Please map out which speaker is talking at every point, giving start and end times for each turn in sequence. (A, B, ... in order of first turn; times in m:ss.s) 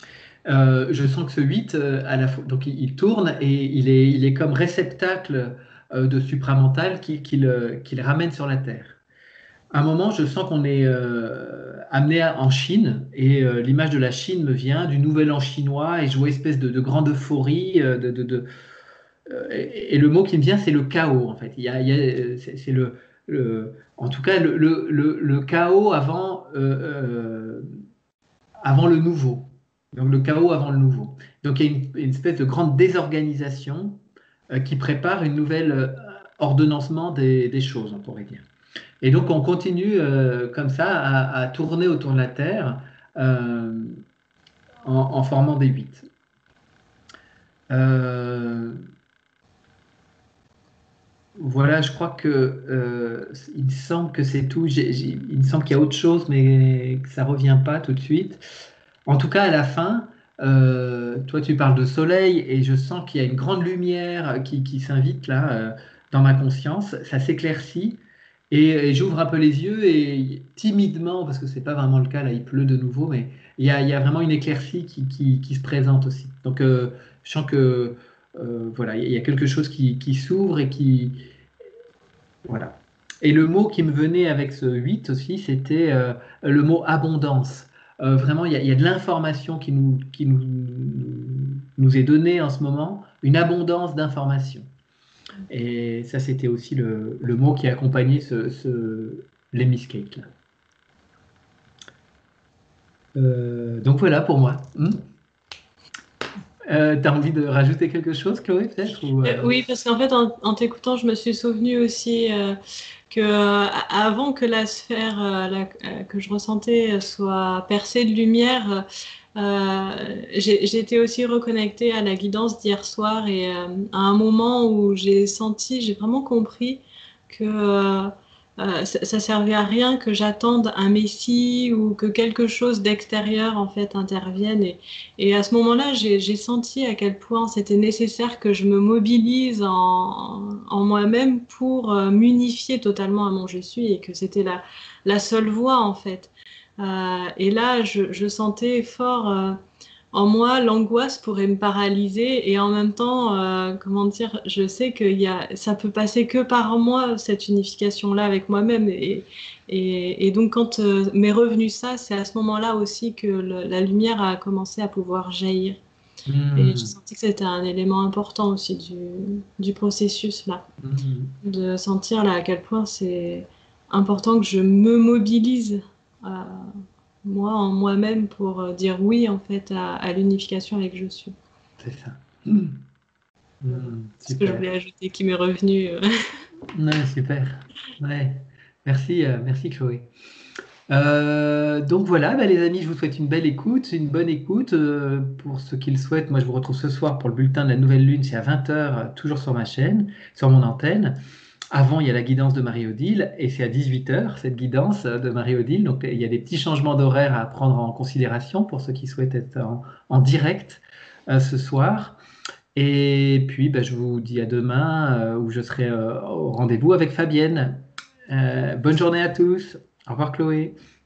0:00.5-0:09.0 A
0:09.7-0:18.5 A
0:19.3-0:27.7 A
0:28.6-0:34.0 A
0:34.5-0:38.4 A
0:39.0-0:44.0 A
0:44.8-0:46.1 A
0:47.7-0:48.8 A
0:51.4-0:58.4 A
0:59.1-1:21.2 A
1:22.4-1:34.7 A
1:35.5-1:40.3 A
1:43.2-1:45.0 A
1:46.7-1:49.6 A
1:49.2-1:52.6 B
1:53.1-2:29.6 B
2:30.1-2:45.8 B
2:46.3-2:47.0 A
2:46.6-2:50.6 B
2:50.8-2:51.3 A
2:51.4-2:56.7 B
2:57.2-3:01.3 B
3:01.8-3:02.8 A
3:03.6-3:04.7 A
3:04.3-3:06.1 B
3:06.7-3:10.1 A
3:10.9-3:21.2 A
3:21.7-3:32.2 A
3:32.8-3:40.8 A